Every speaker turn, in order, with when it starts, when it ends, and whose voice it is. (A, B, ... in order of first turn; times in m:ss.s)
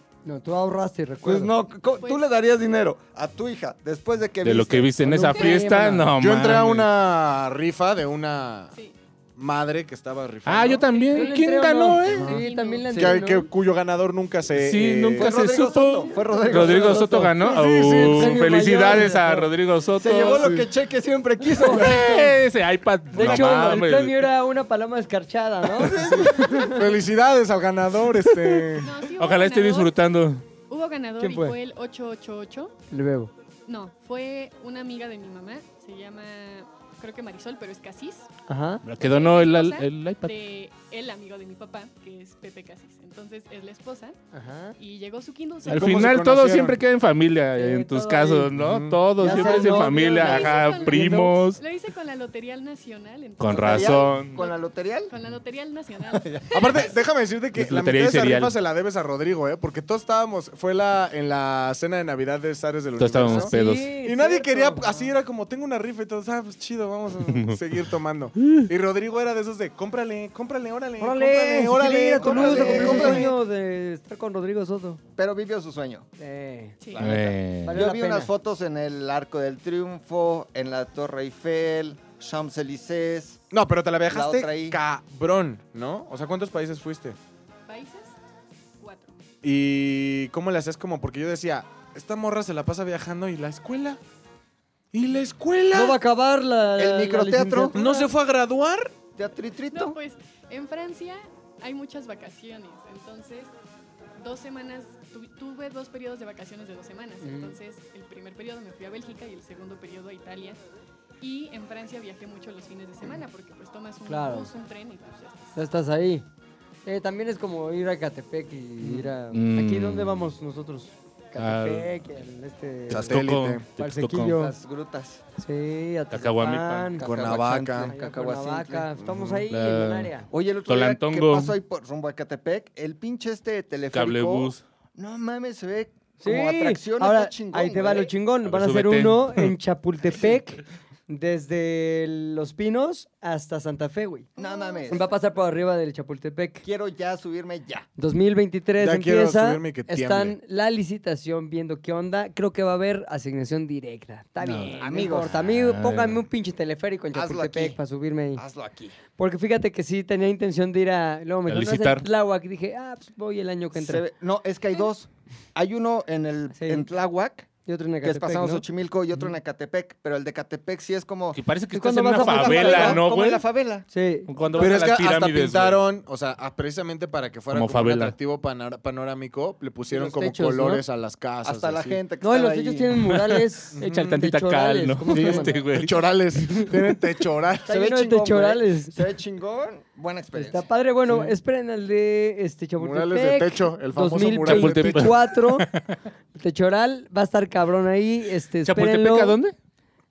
0:00.2-0:01.5 A
0:01.2-0:05.4 B
0:02.0-0:02.4 C
0:04.4-0:06.9 D
0:05.0-0:06.1 A
0:05.3-0:05.7 C
0:06.1-0:08.7 E
0:09.4-0:10.9 E
0:10.5-0:12.4 D
0:10.9-0:11.4 C
0:11.1-0:13.5 A
0:12.1-0:13.2 C
0:12.9-0:15.4 E
0:14.5-0:20.6 D
0:15.2-0:17.3 B
0:16.3-0:19.5 A
0:17.4-0:18.5 E
0:20.0-0:22.4 B
0:20.4-0:20.6 E
0:21.6-0:21.9 A
0:21.7-0:24.3 D
0:23.1-0:26.9 A
0:23.2-0:23.7 E
0:25.8-0:26.8 B
0:26.0-0:28.9 E
0:28.8-0:30.0 C
0:29.2-0:30.4 D
0:30.6-0:32.8 C
0:31.2-0:31.6 A
0:32.9-0:33.3 A
0:33.7-0:38.3 C
0:38.5-0:38.8 A
0:38.8-0:40.4 D
0:39.0-0:44.2 C
0:44.3-0:44.8 A
0:44.8-0:46.2 C
0:45.6-0:51.6 D
0:45.7-0:46.8 E
0:47.6-0:48.5 A
0:48.5-0:49.0 E
0:49.2-0:51.4 A
0:49.3-0:57.1 C
0:53.4-0:54.4 D
0:53.6-0:55.1 B
0:56.5-1:13.3 E
0:57.6-0:58.6 D
1:03.0-1:03.9 D
1:03.2-1:05.0 A
1:11.0-1:15.0 A
1:12.2-1:13.3 B
1:15.2-1:16.1 B
1:16.2-1:18.3 A
1:16.8-1:17.1 C
1:17.0-1:17.9 D
1:17.7-1:23.4 B
1:23.5-1:27.2 E
1:24.1-1:24.8 B
1:27.7-1:28.2 C
1:28.8-1:29.2 C
1:29.4-1:34.0 E
1:34.9-1:36.0 E
1:35.7-1:38.1 A
1:36.8-1:37.8 B
1:37.7-1:39.0 E
1:39.2-1:40.0 B
1:39.7-1:43.5 C
1:44.2-1:50.6 C
1:47.2-1:47.6 A
1:51.2-1:55.6 C
1:54.1-1:54.5 A
1:55.6-1:56.3 A
1:56.8-2:04.6 A
1:59.3-2:00.4 D
2:01.4-2:01.9 D
2:02.9-2:03.7 E
2:02.9-2:04.5 D
2:04.5-2:05.2 B
2:05.4-2:07.0 A
2:06.1-2:07.0 D
2:07.0-2:08.9 B
2:07.0-2:07.9 E
2:07.9-2:10.3 A
2:09.0-2:09.5 E
2:09.5-2:10.1 D
2:10.3-2:18.1 B
2:10.7-2:11.6 D
2:13.9-2:14.6 D
2:16.2-2:24.3 A
2:18.4-2:19.5 D
2:24.4-2:25.1 B
2:24.4-2:25.2 C
2:24.9-2:26.6 A
2:26.6-2:27.9 B
2:28.0-2:38.4 A
2:28.8-2:30.4 E
2:34.4-2:34.8 D
2:34.8-2:35.4 B
2:35.4-2:36.2 D
2:37.1-2:37.8 B
2:38.4-2:39.0 B
2:39.2-2:44.0 A
2:41.5-2:42.1 D
2:43.8-2:47.5 B
2:46.6-2:46.9 A
2:47.7-2:48.6 A
2:48.0-2:51.4 B
2:51.4-2:53.4 D
2:51.7-2:53.0 A
2:52.0-2:53.9 B
2:53.9-2:54.6 A
2:54.3-2:55.8 D
2:54.6-3:02.0 E
2:57.5-2:58.1 D
3:00.0-3:00.8 A
3:01.4-3:03.0 B
3:02.2-3:05.6 A
3:03.8-3:04.1 E
3:03.8-3:05.9 D
3:05.1-3:07.8 E
3:07.7-3:10.7 B
3:07.7-3:09.0 A
3:10.3-3:15.7 A
3:11.1-3:11.3 E
3:12.8-3:15.2 E
3:14.4-3:16.0 D
3:16.3-3:19.4 A
3:18.6-3:19.6 D